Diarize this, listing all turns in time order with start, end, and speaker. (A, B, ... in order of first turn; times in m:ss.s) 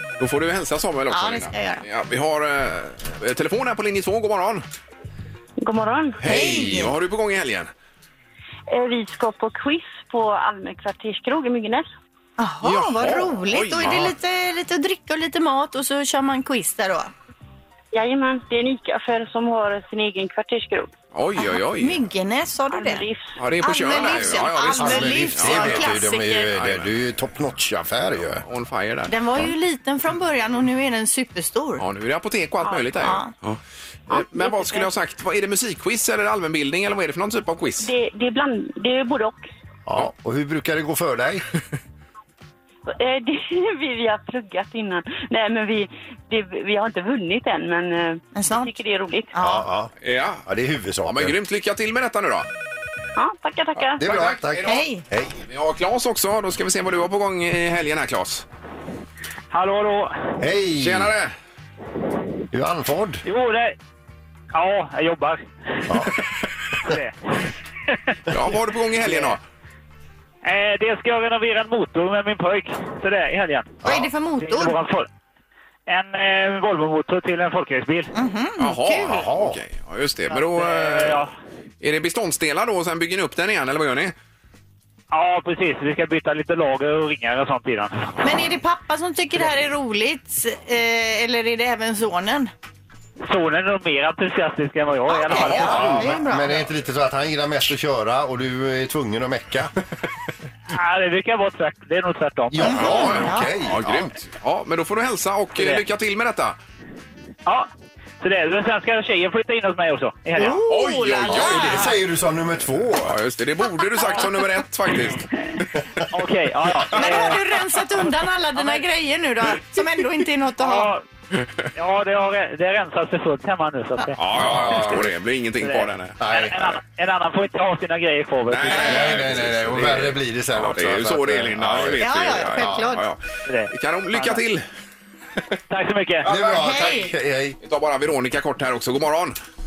0:00.2-0:04.6 A
0:01.1-0:01.8 B
0:05.6-0:06.2 C
0:06.2-0:07.7 A
0:06.2-0:06.9 B
0:08.7-0:11.9 C
0:12.4-0:17.1 B
0:12.6-0:14.1 A
0:17.9-0:20.9 C
0:21.1-0:22.0 A
0:21.4-0:23.1 B
0:22.7-0:23.4 C
0:23.4-0:26.9 A
0:23.6-0:26.5 B
0:24.8-0:28.4 D
0:28.2-0:29.2 A
0:29.1-0:31.8 B
0:31.8-0:37.9 A
0:32.7-0:33.3 B
0:37.8-0:39.5 C
0:39.9-0:41.4 D
0:42.9-0:49.3 C
0:48.4-0:48.7 B
0:49.3-0:49.7 B
0:49.4-0:49.9 D
0:50.0-0:50.4 A
0:50.5-0:51.4 D
0:51.0-0:52.5 A
0:53.2-0:54.0 C
0:54.0-0:55.4 D
0:54.0-0:54.8 A
0:54.6-0:55.0 B
0:55.4-0:58.4 A
0:59.5-1:00.3 E
1:00.4-1:01.1 D
1:00.8-1:01.3 A
1:02.5-1:03.2 D
1:03.2-1:03.8 E
1:04.5-1:05.4 E
1:05.9-1:06.2 D
1:06.8-1:07.2 E
1:08.3-1:09.4 A
1:09.1-1:09.4 E
1:10.4-1:13.8 E
1:13.8-1:14.8 B
1:14.4-1:15.1 E
1:15.9-1:18.1 E
1:18.1-1:19.2 B
1:18.6-1:21.3 A
1:19.0-1:19.6 D
1:20.5-1:21.3 E
1:21.8-1:24.1 A
1:25.1-1:28.2 E
1:28.2-1:32.5 B
1:33.3-1:36.2 E
1:35.1-1:36.6 B
1:35.3-1:36.1 A
1:35.5-1:39.7 D
1:40.7-1:42.8 E
1:42.5-1:44.1 D
1:42.6-1:43.5 B
1:42.7-1:46.6 A
1:45.6-1:45.8 E
1:48.2-1:50.6 E
1:50.4-1:51.9 B
1:50.6-1:52.0 A
1:51.3-1:53.2 D
1:52.9-1:55.3 A
1:56.1-1:57.4 E
1:56.9-2:00.9 B
1:58.6-1:58.8 E
2:00.6-2:01.0 E
2:01.3-2:01.7 A
2:01.8-2:04.8 E
2:04.2-2:06.2 A
2:04.4-2:05.1 D
2:05.6-2:09.1 E
2:06.2-2:06.8 D
2:08.5-2:14.6 A
2:08.7-2:12.8 D
2:12.0-2:13.0 B
2:13.5-2:14.4 E
2:15.7-2:16.3 E
2:16.2-2:17.6 D
2:16.3-2:17.1 B
2:17.6-2:19.4 A